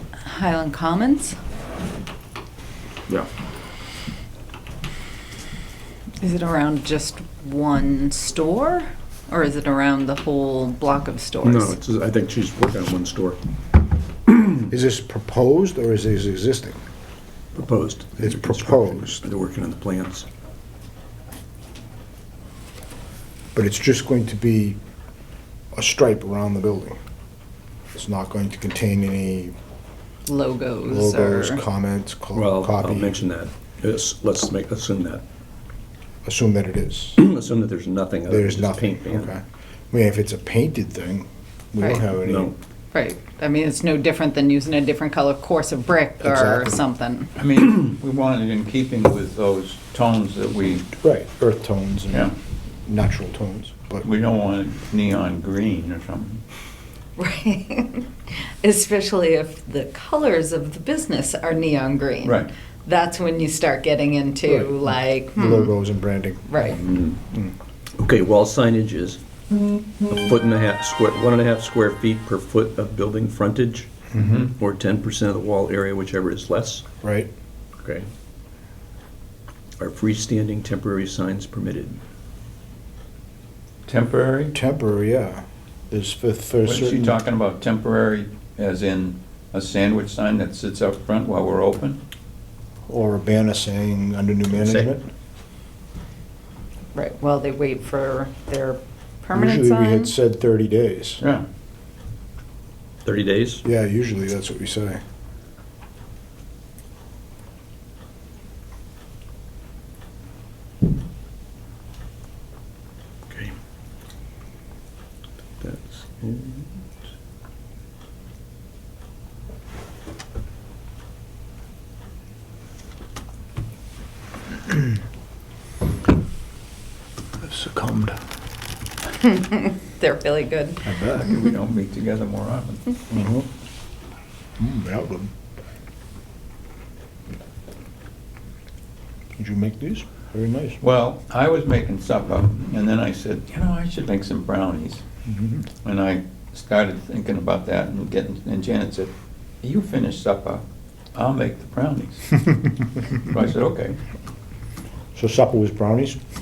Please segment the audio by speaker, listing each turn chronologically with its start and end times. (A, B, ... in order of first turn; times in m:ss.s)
0:00.2-0:01.4 A
0:06.2-0:11.8 A
0:11.4-0:13.4 B
0:14.3-0:14.6 B
0:14.7-0:16.8 C
0:17.5-0:20.2 B
0:18.2-0:19.2 C
0:23.5-0:24.8 C
0:25.7-0:27.0 C
0:27.9-0:29.5 C
0:30.3-0:31.6 A
0:30.9-0:33.2 C
0:32.3-0:35.2 B
0:36.2-0:37.2 C
0:37.2-0:39.3 B
0:38.3-0:42.6 C
0:42.2-0:42.5 B
0:42.9-0:47.3 A
0:46.2-0:46.8 C
0:47.4-0:50.9 D
0:51.0-0:52.3 C
0:52.8-0:54.0 C
0:54.0-0:56.4 D
0:57.2-1:05.7 A
1:02.2-1:02.5 D
1:04.4-1:06.6 C
1:06.5-1:06.8 A
1:08.0-1:09.2 B
1:10.1-1:13.9 B
1:14.1-1:14.5 C
1:14.2-1:14.5 D
1:14.5-1:16.8 B
1:17.0-1:17.3 C
1:17.8-1:18.1 B
1:19.8-1:22.0 B
1:23.8-1:24.5 D
1:24.5-1:27.2 C
1:26.6-1:32.0 D
1:32.9-1:35.0 C
1:34.5-1:34.9 B
1:36.9-1:40.1 A
1:39.3-1:41.2 C
1:41.2-1:41.5 D
1:43.0-1:43.6 B
1:43.6-1:45.0 C
1:53.3-1:53.5 B
1:55.6-1:56.8 B
2:07.4-2:08.2 C
2:09.2-2:10.8 A
2:10.8-2:11.2 C
2:11.1-2:12.8 D
2:13.1-2:13.5 C
2:14.6-2:15.3 C
2:19.4-2:20.8 C
2:20.8-2:25.0 D
2:25.3-2:25.6 C
2:25.8-2:30.6 D
2:31.1-2:32.4 D
2:33.1-2:34.0 D
2:35.1-2:36.2 C